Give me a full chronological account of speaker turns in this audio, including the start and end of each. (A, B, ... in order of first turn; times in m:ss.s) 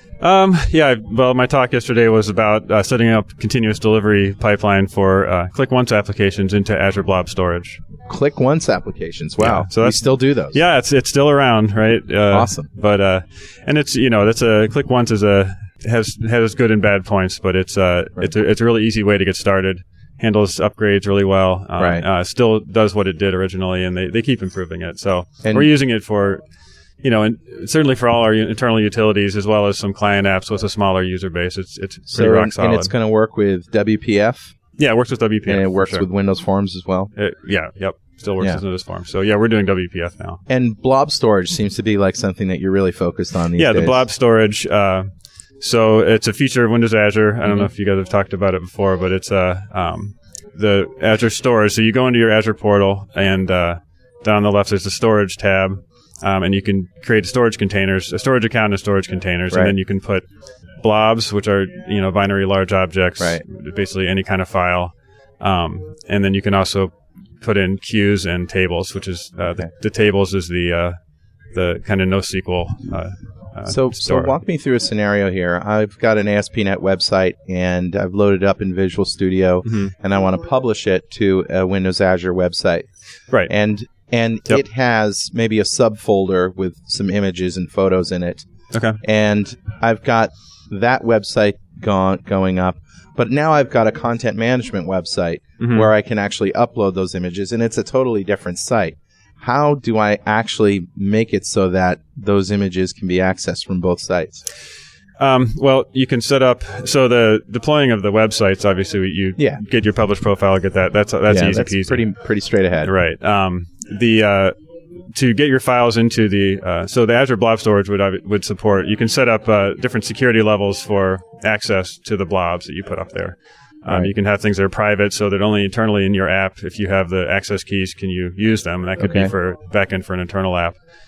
0:00.2-0:07.8 A
0:08.1-0:10.6 B
0:09.4-0:26.4 A
0:12.3-0:12.7 B
0:21.8-0:22.0 B
0:25.4-0:25.7 B
0:27.0-0:32.9 A
0:32.1-0:34.5 B
0:34.8-0:36.1 A
0:35.5-0:37.1 B
0:37.2-0:40.4 A
0:40.5-0:44.0 B
0:43.6-0:45.1 A
0:45.6-1:00.2 A
1:00.8-1:11.0 A
1:11.5-1:14.3 A
1:13.7-1:22.9 B
1:19.7-1:19.9 A
1:23.5-1:28.5 B
1:28.7-1:29.0 A
1:29.0-1:44.4 B
1:35.6-1:35.9 A
1:45.2-1:52.0 A
1:51.3-1:52.9 B
1:52.8-1:54.5 A
1:55.1-2:10.8 A
2:09.0-2:09.3 B